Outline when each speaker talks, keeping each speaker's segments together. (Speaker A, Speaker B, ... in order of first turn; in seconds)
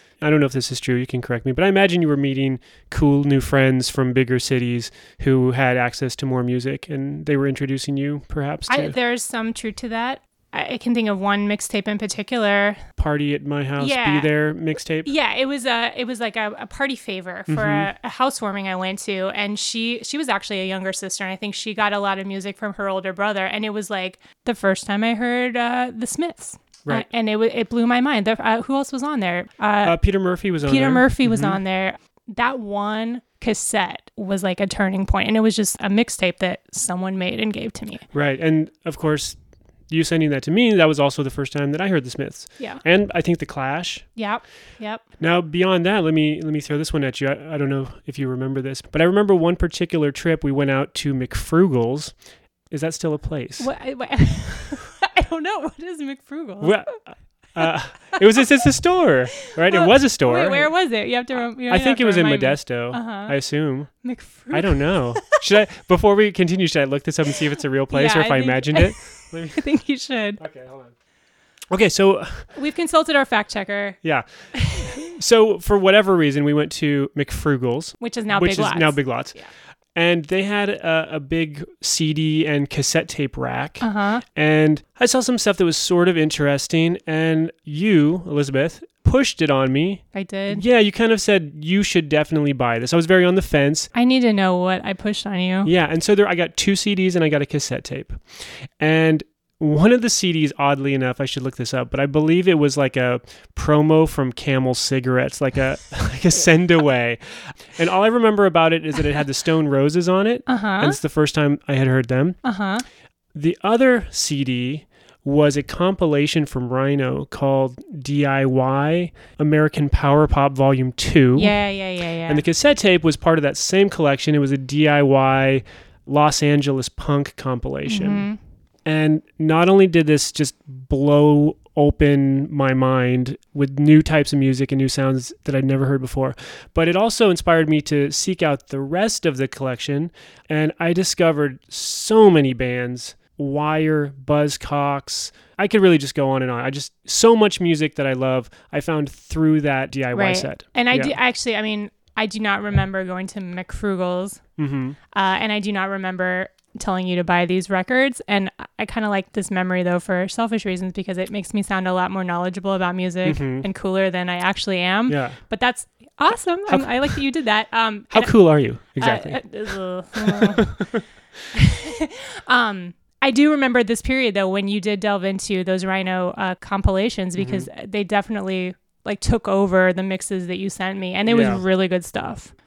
Speaker A: 0.2-8.9, 13.0-15.1, 17.5-17.9, 29.8-31.6, 38.1-44.0, 45.2-52.1, 52.7-53.7, 56.6-60.7, 61.7-63.9, 64.5-69.6, 70.4-70.9, 71.7-72.5, 74.0-79.3, 79.9-93.9, 95.6-112.4, 113.3-121.6, 122.3-128.3, 128.8-151.2, 154.6-155.0, 163.2-163.7, 165.1-165.4, 166.7-167.2, 168.1-169.4, 170.1-171.1, 177.4-177.7, 181.3-181.6
Speaker B: 8.7-12.8, 13.8-14.3, 15.0-30.0, 30.6-38.0, 44.1-45.0, 53.6-57.0, 57.6-58.5, 59.4-63.4, 64.0-65.4, 67.9-70.4, 72.5-74.0, 74.5-75.0, 78.0-79.5, 83.8-84.2, 90.1-90.6, 93.9-95.7, 110.5-111.0, 112.4-112.8, 121.3-122.4, 127.8-128.4, 150.1-154.4, 155.1-168.3, 169.0-170.8, 171.5-182.5